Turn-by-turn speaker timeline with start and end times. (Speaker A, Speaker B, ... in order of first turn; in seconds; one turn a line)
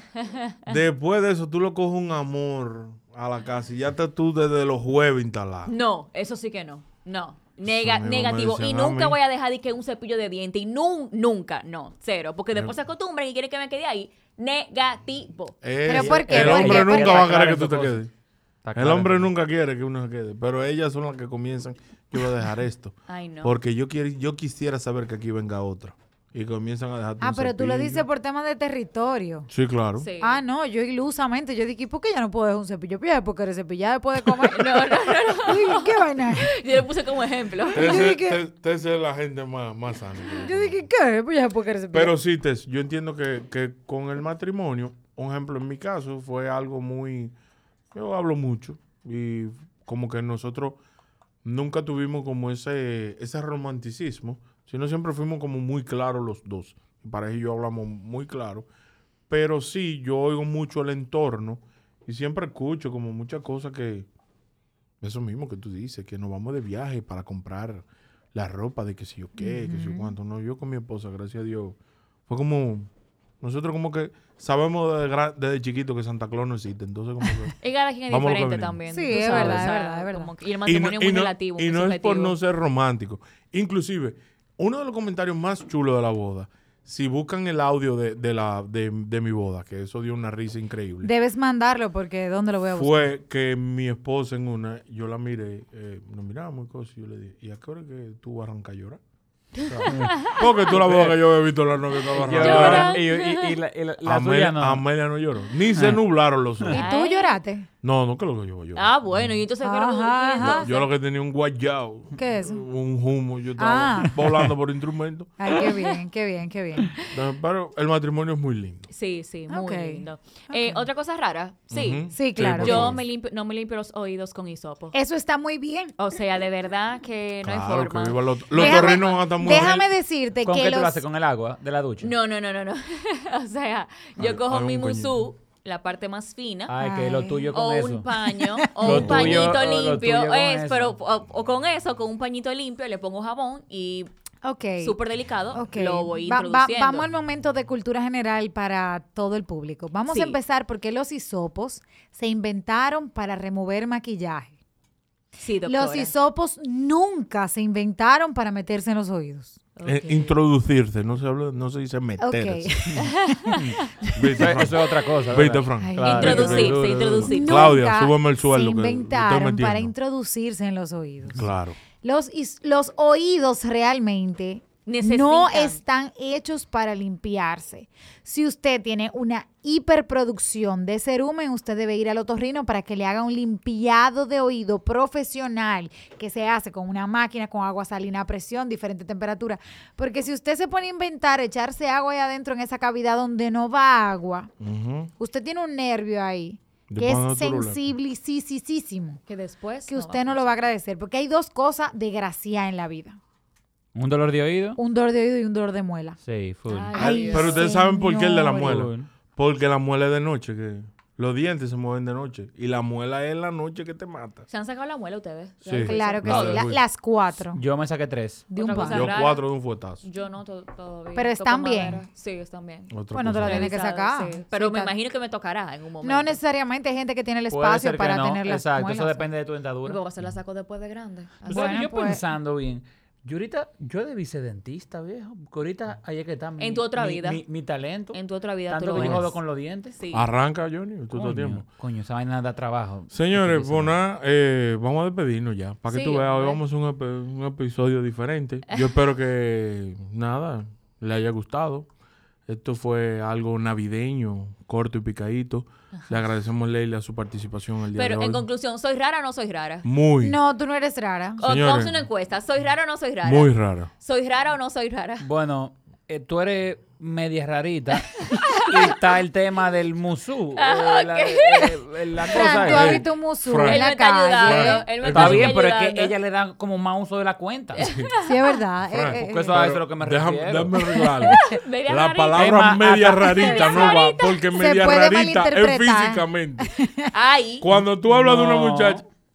Speaker A: 0.2-0.8
Speaker B: 0.7-5.7
Speaker A: 5.7-15.6
Speaker B: 7.7-9.2
Speaker B: 15.6-18.1
Speaker C: 15.9-17.3
Speaker D: 15.9-18.0
Speaker D: 18.6-19.3
Speaker B: 18.8-28.0
Speaker A: 23.1-23.6
Speaker C: 27.2-29.5
Speaker B: 29.5-30.1
Speaker A: 30.0-30.4
Speaker C: 30.2-36.6
Speaker A: 34.4-38.1
Speaker C: 37.7-38.4
Speaker B: 37.7-40.8
Speaker C: 40.4-42.2
Speaker B: 41.9-47.3
Speaker B: 47.9-50.8
Speaker B: 51.4-58.7
Speaker B: 59.3-64.1
Speaker B: 65.0-71.8
Speaker C: 69.4-70.2
Speaker B: 72.3-77.5
Speaker A: 77.6-82.4
Speaker B: 78.1-79.7
Speaker C: 78.9-80.3
Speaker B: 80.7-91.1
Speaker C: 91.0-93.1
Speaker B: 92.7-99.0
Speaker B: 99.6-103.0
Speaker A: 99.6-100.3
Speaker D: 99.9-101.3
Speaker D: 102.1-104.9
Speaker A: 102.4-103.6
Speaker B: 104.0-106.8
Speaker C: 106.7-107.7
Speaker A: 106.7-107.4
Speaker B: 107.8-109.3
Speaker A: 108.8-110.9
Speaker C: 109.6-110.7
Speaker B: 110.4-115.3
Speaker C: 112.2-112.6
Speaker C: 113.6-114.5
Speaker C: 115.4-116.9
Speaker A: 115.6-116.0
Speaker B: 117.1-118.9
Speaker A: 118.9-124.9
Speaker C: 119.5-120.9
Speaker B: 121.7-123.0
Speaker C: 122.1-122.9
Speaker C: 124.9-125.9
Speaker A: 126.0-129.9
Speaker B: 127.4-129.8
Speaker C: 128.5-131.0
Speaker D: 130.4-132.1
Speaker A: 132.0-136.7
Speaker B: 134.2-135.1
Speaker D: 136.7-138.1
Speaker C: 136.8-137.5
Speaker A: 137.5-144.1
Speaker C: 138.4-138.8
Speaker D: 138.8-140.9
Speaker B: 138.8-139.6
Speaker C: 144.4-145.0
Speaker A: 144.8-147.1
Speaker C: 145.5-154.6
Speaker A: 150.1-150.4
Speaker A: 155.4-156.1
Speaker C: 155.7-159.6
Speaker A: 159.8-160.4
Speaker B: 159.8-163.0
Speaker C: 162.2-164.5
Speaker D: 163.5-163.8
Speaker B: 164.1-169.9
Speaker D: 164.4-167.2
Speaker C: 165.8-194.5
Speaker A: 166.0-167.8
Speaker B: 171.3-171.8
Speaker A: 174.9-175.8
Speaker B: 194.6-195.1
Speaker C: 195.2-199.2
Speaker B: 196.9-197.8
Speaker A: 199.3-200.5
Speaker C: 199.9-203.2
Speaker D: 203.9-204.8
Speaker C: 204.8-206.2
Speaker D: 206.2-207.0
Speaker A: 206.7-207.7
Speaker C: 206.9-208.9
Speaker B: 206.9-214.4
Speaker D: 208.5-209.1
Speaker A: 214.5-216.7
Speaker B: 215.6-216.8
Speaker C: 215.8-217.6
Speaker D: 217.5-218.5
Speaker C: 218.5-219.1
Speaker A: 218.6-226.4
Speaker B: 218.9-220.0
Speaker C: 221.1-222.0
Speaker B: 222.9-223.8
Speaker C: 223.1-224.9
Speaker C: 226.0-229.3
Speaker D: 227.5-230.0
Speaker A: 229.8-231.9
Speaker D: 231.5-240.0
Speaker C: 231.5-232.2
Speaker A: 236.6-237.4
Speaker A: 238.1-239.3
Speaker B: 239.0-239.3
Speaker A: 240.0-240.3
Speaker B: 240.1-241.7
Speaker D: 241.1-244.0
Speaker B: 243.1-251.9
Speaker A: 245.9-246.6
Speaker A: 248.7-248.9
Speaker B: 252.5-258.4
Speaker A: 257.9-259.9
Speaker B: 259.8-260.4
Speaker C: 260.2-261.4
Speaker B: 261.4-262.0
Speaker A: 261.4-265.2
Speaker B: 263.2-263.9
Speaker D: 265.2-273.1
Speaker A: 268.3-268.9
Speaker A: 270.6-271.8
Speaker C: 272.3-274.9
Speaker B: 272.6-275.5
Speaker A: 273.6-276.1
Speaker D: 275.1-277.9
Speaker B: 277.8-278.1
Speaker A: 277.8-278.6
Speaker C: 278.2-279.7
Speaker B: 278.9-286.7
Speaker D: 279.2-280.7
Speaker C: 280.9-281.6
Speaker A: 281.3-284.7
Speaker D: 282.3-283.5
Speaker C: 283.3-287.1
Speaker A: 287.1-287.7
Speaker B: 287.6-289.0
Speaker D: 288.1-289.0